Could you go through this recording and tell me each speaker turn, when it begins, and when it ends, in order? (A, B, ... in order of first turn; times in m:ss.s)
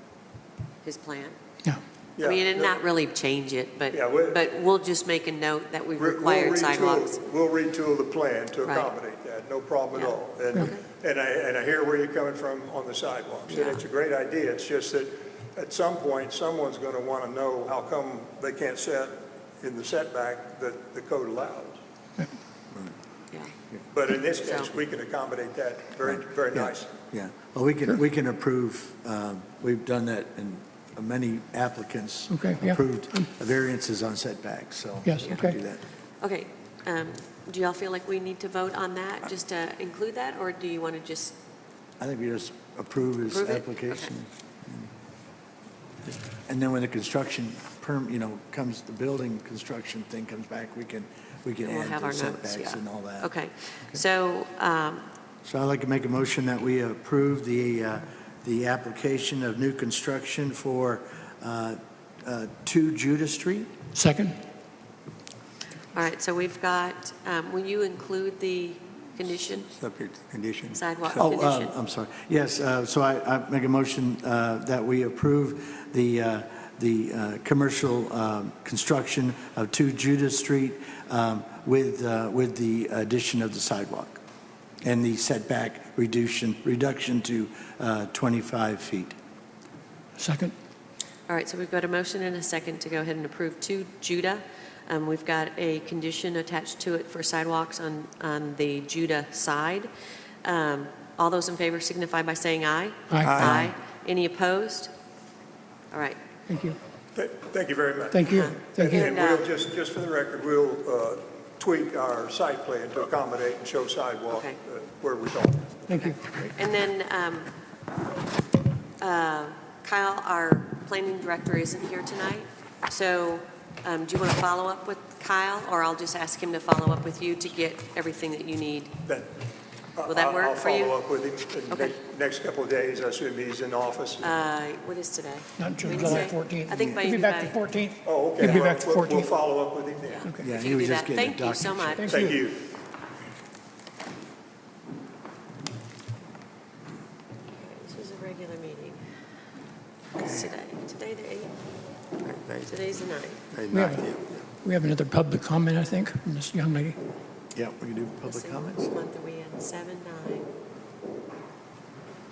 0:00.8-0:01.4 A
0:02.2-0:02.8 B
0:02.2-0:07.2 A
0:03.9-0:04.4 B
0:06.0-0:21.8 B
0:08.6-0:08.9 A
0:09.9-0:10.8 A
0:13.5-0:13.8 A
0:23.9-0:26.9 B
0:24.4-0:24.7 A
0:26.1-0:35.8 C
0:32.3-0:33.3 D
0:35.0-0:35.6 D
0:36.2-0:41.4 A
0:42.0-0:44.9 C
0:43.3-0:44.1 A
0:46.1-0:53.3 C
0:51.6-0:55.1 A
0:55.4-1:03.7 C
1:04.0-1:04.4 D
1:05.9-1:09.7 A
1:09.7-1:11.2 E
1:10.7-1:11.7 A
1:11.1-1:24.2 C
1:24.8-1:29.1 C
1:30.2-1:30.5 D
1:31.3-1:39.9 A
1:40.4-1:44.9 A
1:43.1-1:43.6 D
1:43.2-1:43.7 E
1:45.9-1:46.2 A
1:46.5-1:46.8 D
1:47.2-1:55.9 B
1:48.1-1:49.1 D
1:48.3-1:49.5 A
1:54.3-1:54.6 A
1:55.9-1:56.2 D
1:56.0-1:57.5 A
1:59.0-2:08.9 A
2:10.0-2:14.4 B
2:10.1-2:11.0 A
2:14.2-2:17.6 A
2:15.6-2:19.3 D
2:18.0-2:20.2 B
2:20.1-2:22.2 A
2:20.4-2:22.0 C
2:22.0-2:22.4 D
2:22.1-2:22.7 B
2:27.5-2:29.0 A
2:30.2-2:31.5 A
2:30.2-2:30.5 C
2:32.2-2:32.8 E
2:32.7-2:33.5 A
2:33.5-2:34.4 E
2:33.7-2:37.0 D
2:37.6-2:38.9 C
2:38.2-2:40.5 A